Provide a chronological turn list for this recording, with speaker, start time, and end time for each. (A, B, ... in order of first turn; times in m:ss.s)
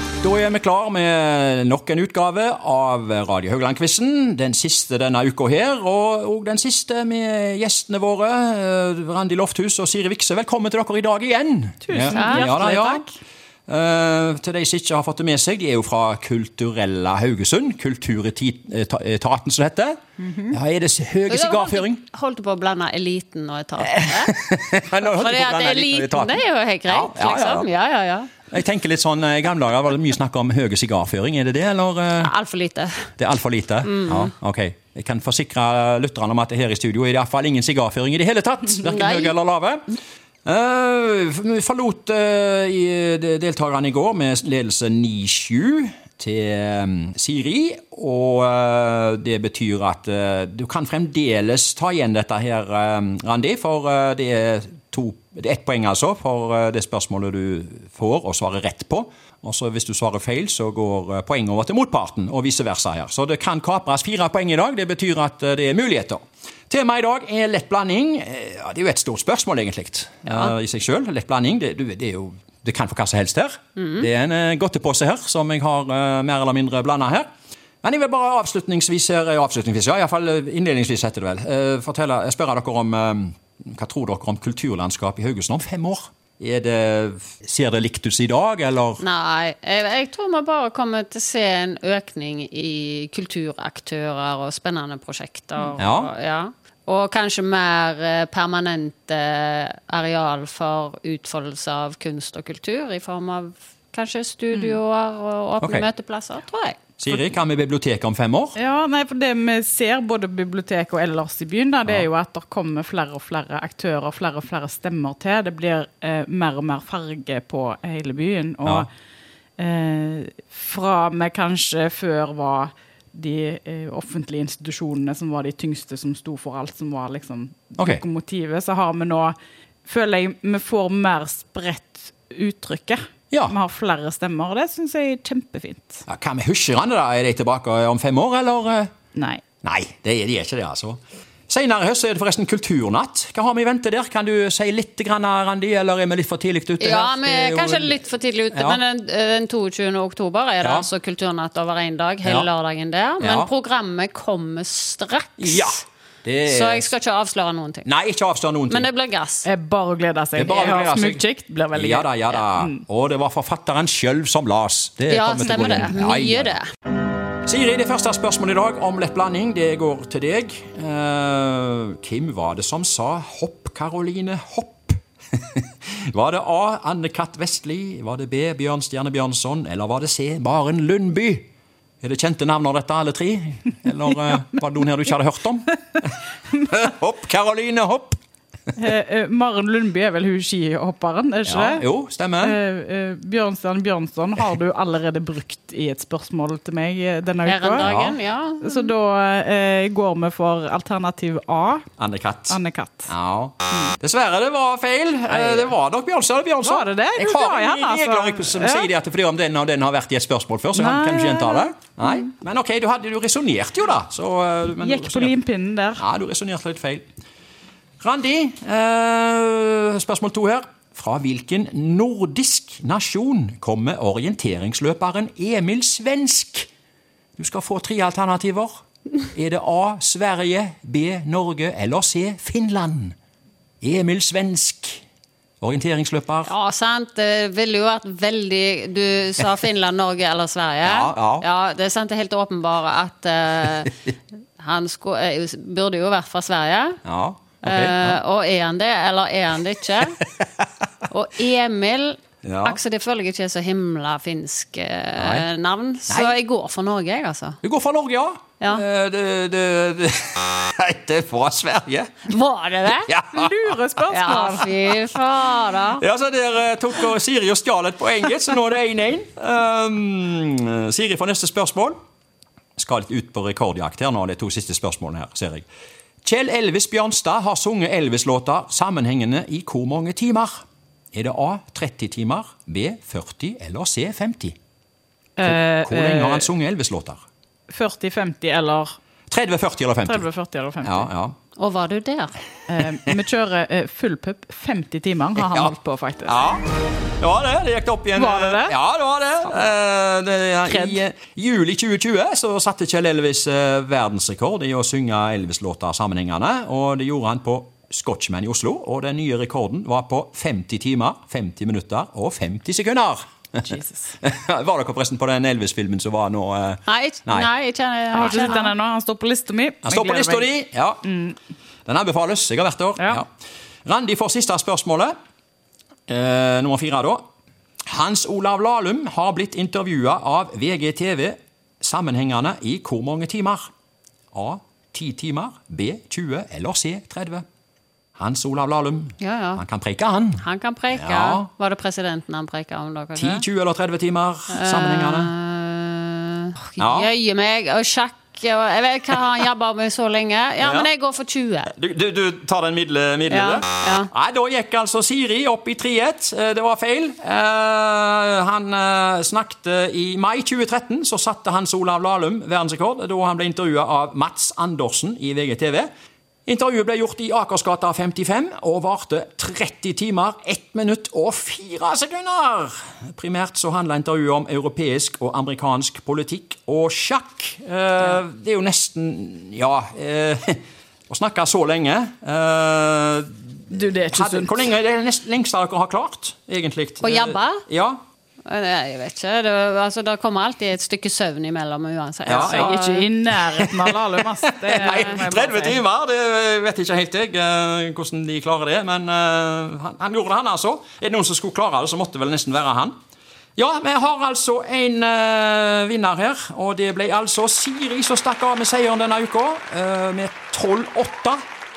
0:00.2-0:13.0 A
0:11.8-0:13.1 B
0:12.1-0:12.5 C
0:13.7-0:22.0 A
0:21.3-0:24.3 C
0:23.8-0:27.7 A
0:25.0-0:28.4 C
0:28.5-0:32.3 A
0:32.2-0:33.1 C
0:33.2-0:39.8 A
0:33.8-0:34.3 C
0:38.8-0:39.3 C
0:40.4-1:17.3 A
1:13.8-1:14.0 C
1:17.8-1:29.0 A
1:29.0-1:46.8 C
1:35.8-1:36.1 A
1:45.6-1:45.9 A
1:47.0-1:48.6 A
1:48.6-1:58.9 B
1:59.6-2:09.3 B
2:09.8-2:16.0 B
2:16.1-2:18.9 A
2:19.1-2:19.4 B
2:19.6-2:28.0 A
2:26.8-2:35.7 C
2:28.5-2:28.8 A
2:30.6-2:30.9 A
2:33.2-2:33.5 A
2:35.4-2:36.9 A
2:36.4-2:37.9 C
2:37.8-2:38.9 A
2:38.7-2:39.5 C
2:39.4-2:42.8 B
2:40.4-2:46.5 A
2:45.1-2:46.6 C
2:47.4-3:01.5 A
3:02.0-3:08.2 A
3:08.7-3:11.8 B
3:11.5-3:12.6 A
3:12.4-3:17.9 B
3:17.4-3:18.9 C
3:17.8-3:18.2 A
3:18.6-3:21.9 B
3:22.0-3:35.4 A
3:22.5-3:23.1 B
3:25.3-3:25.6 B
3:26.6-3:28.9 B
3:30.8-3:31.7 B
3:34.8-3:36.0 B
3:36.0-3:37.0 A
3:38.0-3:46.7 A
3:47.4-3:48.8 A
3:49.3-3:53.1 A
3:53.8-3:55.0 A
3:55.6-3:56.5 A
3:56.4-4:04.0 C
4:00.8-4:01.4 A
4:04.6-4:07.0 C
4:07.0-4:08.2 A
4:07.6-4:10.2 C
4:11.1-4:17.6 C
4:12.4-4:12.8 A
4:15.2-4:15.4 A
4:16.1-4:16.4 A
4:17.6-4:22.3 A
4:22.3-4:23.1 C
4:23.0-4:23.6 A
4:23.3-4:24.7 B
4:24.1-4:26.0 C
4:26.0-4:32.0 A
4:32.8-4:35.6 A
4:36.2-4:40.6 A
4:41.1-4:44.6 A
4:45.4-4:46.5 B
4:45.4-4:47.2 A
4:47.7-4:49.0 B
4:49.3-4:50.2 A
4:50.0-4:51.1 B
4:50.8-4:51.4 A
4:51.6-4:52.3 C
4:52.7-4:56.5 B
4:55.4-4:55.7 A
4:56.2-5:17.5 A
4:58.1-4:58.8 B
5:00.7-5:01.0 B
5:13.7-5:14.1 B
5:16.9-5:18.7 C
5:18.1-5:20.5 B
5:18.2-5:18.5 A
5:19.8-5:21.1 A
5:21.1-5:21.3 B
5:21.8-5:23.3 A
5:23.0-5:23.2 B
5:23.8-5:25.1 A
5:26.1-5:27.2 A
5:27.9-5:33.6 A
5:34.3-5:37.4 A
5:38.2-5:41.5 A
5:39.2-5:39.6 C
5:40.4-5:43.4 C
5:43.2-5:45.3 A
5:44.5-5:51.7 C
5:46.8-5:47.1 A
5:50.6-5:50.9 A
5:51.7-6:05.9 A
5:53.3-5:54.1 C
6:06.4-6:28.0 A
6:23.7-6:24.6 B
6:27.0-6:27.6 C
6:28.4-6:33.1 C
6:32.2-6:32.8 A
6:32.3-6:35.8 B
6:33.5-6:42.9 A
6:43.6-6:51.4 A